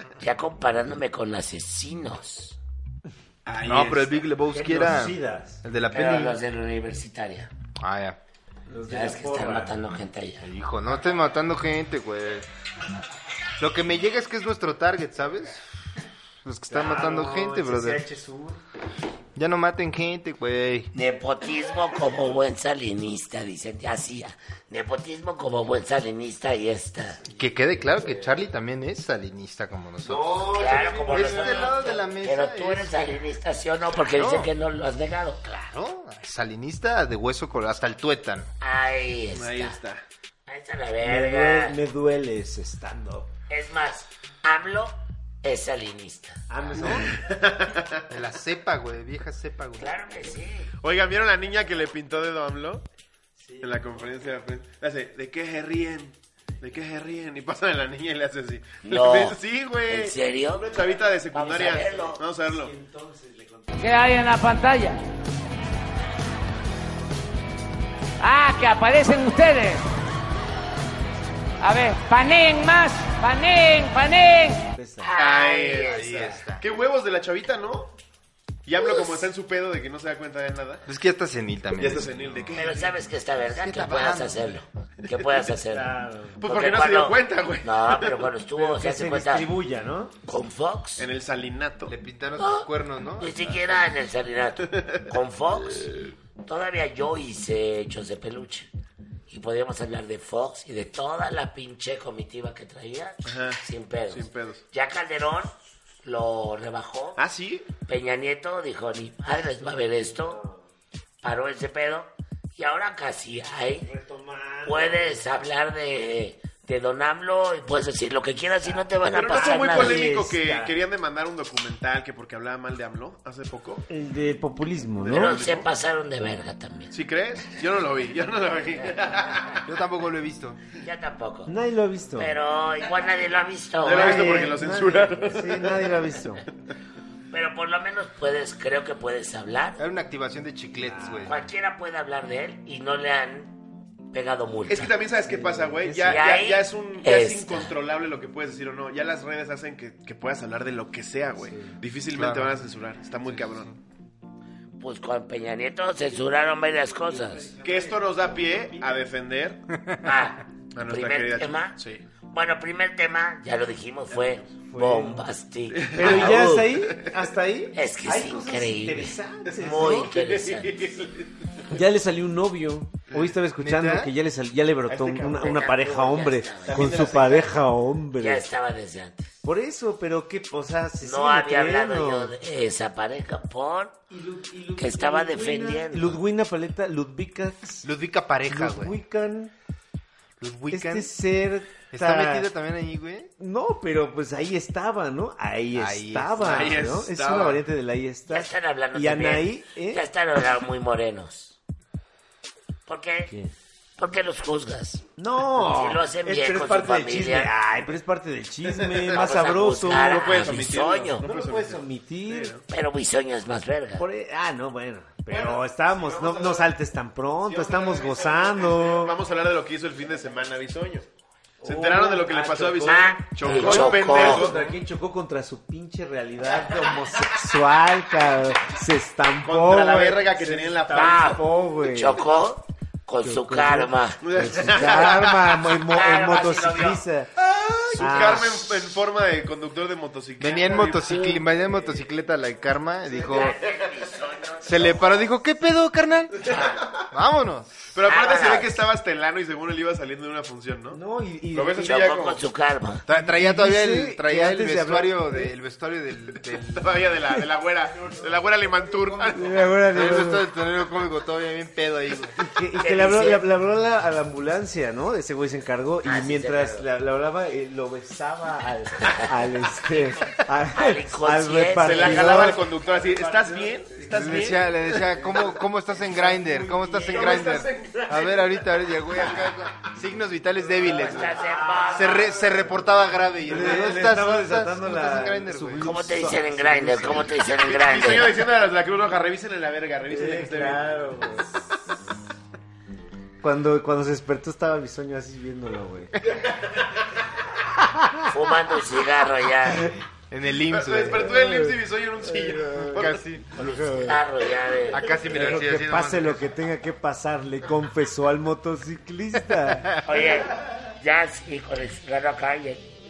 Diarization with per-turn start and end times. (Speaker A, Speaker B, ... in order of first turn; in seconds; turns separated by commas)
Speaker A: 0.2-2.6, Speaker B: 3.5-4.1, Speaker C: 3.6-6.4, Speaker D: 4.5-5.6, Speaker A: 5.9-7.5, Speaker C: 7.8-8.2, Speaker D: 8.7-9.7, Speaker A: 8.9-10.5, Speaker C: 10.4-12.5, Speaker C: 13.6-15.6, Speaker C: 16.4-18.1, Speaker D: 16.7-18.6, Speaker C: 19.4-20.9, Speaker A: 20.9-27.2, Speaker C: 27.3-30.5, Speaker D: 30.1-31.7, Speaker A: 30.5-35.6, Speaker C: 31.1-33.1, Speaker C: 34.1-34.5, Speaker C: 35.5-38.5, Speaker A: 38.6-39.8, Speaker B: 39.3-40.0, Speaker A: 40.5-41.8, Speaker D: 41.0-43.3, Speaker A: 43.5-46.4, Speaker D: 46.5-47.1, Speaker B: 46.8-48.0, Speaker C: 48.1-49.9, Speaker A: 49.8-50.7, Speaker B: 50.8-52.8, Speaker D: 53.4-54.1, Speaker B: 53.6-62.7, Speaker A: 58.8-60.7, Speaker A: 61.3-62.2, Speaker D: 62.4-64.1, Speaker E: 63.8-65.0, Speaker E: 68.2-69.8, Speaker E: 71.6-74.7, Speaker D: 74.8-75.1, Speaker A: 75.0-76.3, Speaker B: 75.2-77.9, Speaker C: 75.8-76.6, Speaker B: 78.7-80.8, Speaker A: 78.8-79.3, Speaker C: 80.9-82.1, Speaker B: 81.8-82.8, Speaker A: 82.5-89.5, Speaker C: 83.5-84.5, Speaker D: 85.7-86.4, Speaker B: 86.4-88.3, Speaker D: 88.6-90.1, Speaker A: 90.3-91.1, Speaker B: 91.0-91.9, Speaker C: 91.9-93.6, Speaker A: 92.4-95.9, Speaker B: 94.7-95.0, Speaker B: 95.8-96.1, Speaker A: 96.5-98.7, Speaker A: 99.3-107.2, Speaker B: 103.3-104.6, Speaker B: 107.2-107.7, Speaker A: 107.9-110.4, Speaker D: 110.0-110.7, Speaker A: 111.2-113.9, Speaker D: 113.8-115.3, Speaker A: 114.6-120.0, Speaker B: 119.1-123.8, Speaker D: 119.3-120.8, Speaker D: 123.9-125.3, Speaker B: 125.0-125.7, Speaker A: 125.1-126.9, Speaker B: 126.9-129.6, Speaker C: 129.7-130.6, Speaker A: 130.8-131.5, Speaker D: 131.5-132.3, Speaker A: 132.2-134.5, Speaker B: 133.8-135.8, Speaker D: 133.9-136.4, Speaker A: 137.3-139.8, Speaker C: 139.8-141.4, Speaker D: 140.8-141.3, Speaker A: 141.3-143.6, Speaker A: 144.1-144.9, Speaker B: 144.7-153.7, Speaker D: 145.2-146.2, Speaker A: 146.1-147.7, Speaker D: 151.4-151.8, Speaker C: 152.1-152.6, Speaker D: 153.3-153.6, Speaker A: 154.8-157.5, Speaker D: 156.5-159.0, Speaker B: 157.6-159.6, Speaker A: 160.0-161.8, Speaker B: 160.7-162.0, Speaker A: 162.3-166.8, Speaker D: 164.7-165.3, Speaker B: 165.8-167.1, Speaker D: 165.9-170.1, Speaker A: 167.7-170.9, Speaker B: 169.6-171.3, Speaker D: 171.7-178.4, Speaker C: 173.6-174.1, Speaker B: 174.9-175.5, Speaker A: 175.4-177.1, Speaker B: 176.6-177.5, Speaker A: 178.2-179.3, Speaker D: 179.4-182.3, Speaker A: 181.0-184.0, Speaker D: 184.1-187.9, Speaker A: 184.8-186.2, Speaker C: 187.8-189.0, Speaker D: 188.5-189.5, Speaker C: 190.4-191.1, Speaker D: 190.7-192.5, Speaker C: 191.9-193.3, Speaker D: 193.4-200.0, Speaker C: 195.7-196.7, Speaker B: 196.4-197.6, Speaker A: 198.3-201.6, Speaker A: 202.9-203.3, Speaker D: 203.3-203.5, Speaker A: 204.0-205.0, Speaker D: 205.2-212.6, Speaker A: 205.6-207.5, Speaker B: 208.7-212.7, Speaker A: 209.1-211.3, Speaker A: 212.7-214.1, Speaker D: 214.0-219.2, Speaker B: 215.3-216.7, Speaker B: 217.4-221.1, Speaker D: 221.6-232.2, Speaker B: 221.6-224.8, Speaker A: 222.8-224.5, Speaker B: 229.4-231.4, Speaker A: 230.9-235.1, Speaker D: 233.2-237.3, Speaker B: 234.2-235.4, Speaker A: 235.9-237.0, Speaker B: 237.4-241.4, Speaker D: 238.0-238.7, Speaker C: 240.4-243.6, Speaker A: 243.3-245.3, Speaker C: 244.6-246.5, Speaker A: 246.4-246.9, Speaker C: 247.1-247.9, Speaker B: 247.9-251.0, Speaker A: 248.1-248.8, Speaker D: 250.9-252.1, Speaker B: 251.5-252.4, Speaker A: 251.8-253.0, Speaker C: 253.1-257.2, Speaker D: 253.1-255.5, Speaker B: 256.6-259.7, Speaker D: 259.3-260.5, Speaker C: 259.9-262.4, Speaker D: 262.4-274.5, Speaker A: 262.8-263.4, Speaker A: 266.0-266.9, Speaker A: 269.9-272.6, Speaker B: 271.8-274.7, Speaker C: 274.1-281.4, Speaker D: 276.0-277.3, Speaker B: 277.0-278.3, Speaker D: 280.9-282.1, Speaker A: 281.0-282.4, Speaker C: 281.9-285.9, Speaker D: 283.5-287.3, Speaker A: 285.8-288.4, Speaker B: 287.6-290.9, Speaker D: 290.1-291.8, Speaker D: 293.4-296.1, Speaker D: 297.9-298.2, Speaker A: 298.3-299.9, Speaker C: 300.3-301.3, Speaker B: 300.7-303.2, Speaker D: 301.1-304.2, Speaker C: 302.9-303.5, Speaker A: 303.6-305.1, Speaker C: 304.9-306.5, Speaker D: 305.3-309.9, Speaker C: 309.6-310.1, Speaker A: 310.0-312.9